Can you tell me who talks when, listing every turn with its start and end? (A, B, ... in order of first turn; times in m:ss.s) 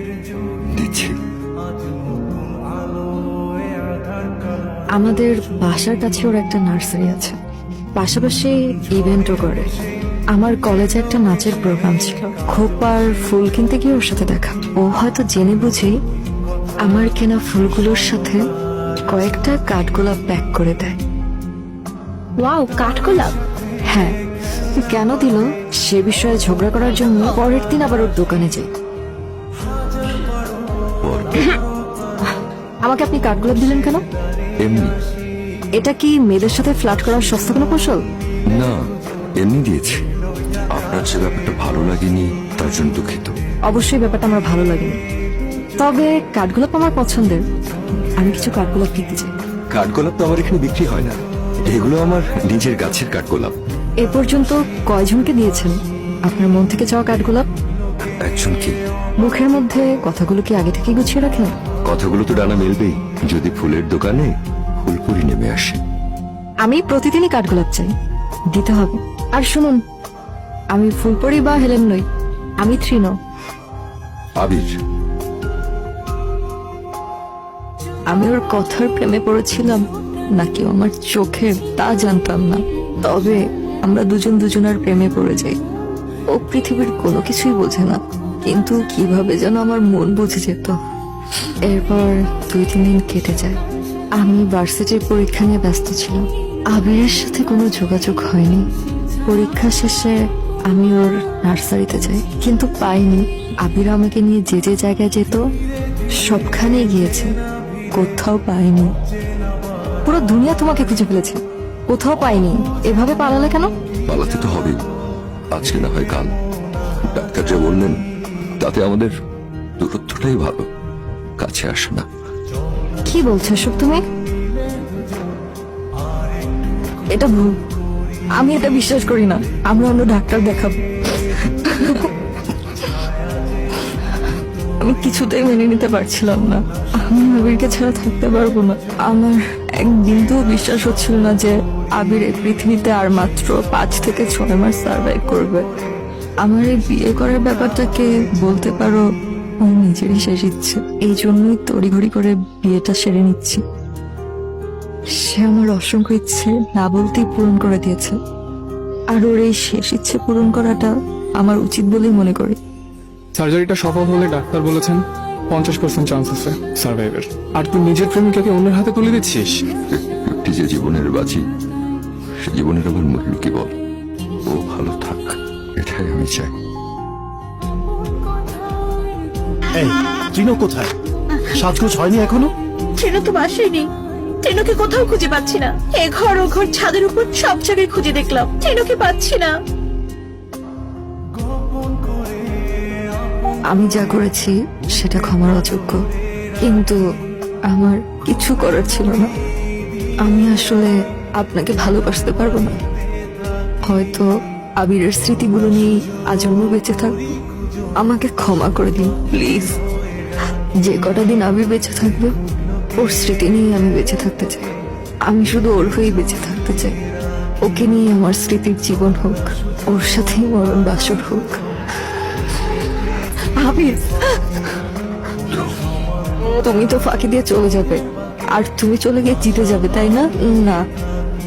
0:00.7-0:01.2 A
0:05.0-0:07.4 B
0:08.0-0:09.7 B
0:10.3-0:15.9 B
0:16.8-0:18.4 B
0:19.1-0:21.0 B
0:22.4-0:23.3 C
0:23.9-0:24.2 B
0:24.9-0:28.7 B
0:31.0-0:31.5 A
0:32.2-0:34.0 B
0:34.6-0:34.9 A
0:35.8-0:38.0 B
0:39.4-0:40.0 A
0:40.7-0:43.3 A
0:43.7-0:45.0 B
0:45.8-0:47.4 B
0:48.2-0:49.3 B
0:49.7-0:53.6 A
0:54.0-0:55.8 B
0:56.3-0:57.4 B
0:58.2-0:58.8 A
0:59.2-1:01.6 B
1:01.9-1:04.3 A
1:04.8-1:05.8 A
1:06.6-1:07.9 B
1:08.5-1:09.8 B
1:10.7-1:12.0 B
1:12.6-1:13.2 B
1:14.4-1:14.7 A
1:18.1-1:19.8 B
1:20.4-1:25.6 B
1:26.3-1:30.8 B
1:31.7-1:33.6 B
1:34.2-1:38.6 B
1:39.3-1:45.4 B
1:46.2-1:47.3 B
1:48.0-1:48.9 B
1:50.0-1:53.7 B
1:54.1-1:54.8 A
1:55.5-1:56.3 A
1:57.1-1:58.0 A
1:58.6-1:59.1 A
1:59.8-2:00.6 A
2:01.4-2:02.1 A
2:03.1-2:04.0 B
2:07.1-2:07.5 B
2:08.4-2:13.0 B
2:13.9-2:14.3 B
2:14.8-2:25.6 B
2:26.4-2:29.0 B
2:29.6-2:33.6 B
2:35.2-2:38.2 B
2:39.1-2:42.6 B
2:43.4-2:49.6 D
2:49.9-2:51.4 A
2:52.4-2:53.7 A
2:54.5-2:56.5 A
2:59.8-3:00.9 E
3:01.3-3:01.6 C
3:01.6-3:02.5 E
3:03.0-3:03.9 C
3:04.4-3:09.6 C
3:13.7-3:16.0 B
3:16.6-3:17.0 B
3:17.7-3:19.3 B
3:20.2-3:22.8 B
3:23.9-3:24.3 B
3:24.8-3:27.2 B
3:28.0-3:29.8 B
3:30.8-3:32.3 B
3:33.0-3:34.7 B
3:35.3-3:37.0 B
3:37.6-3:41.6 B
3:43.6-3:44.6 B
3:46.4-3:48.0 B
3:48.5-3:50.8 B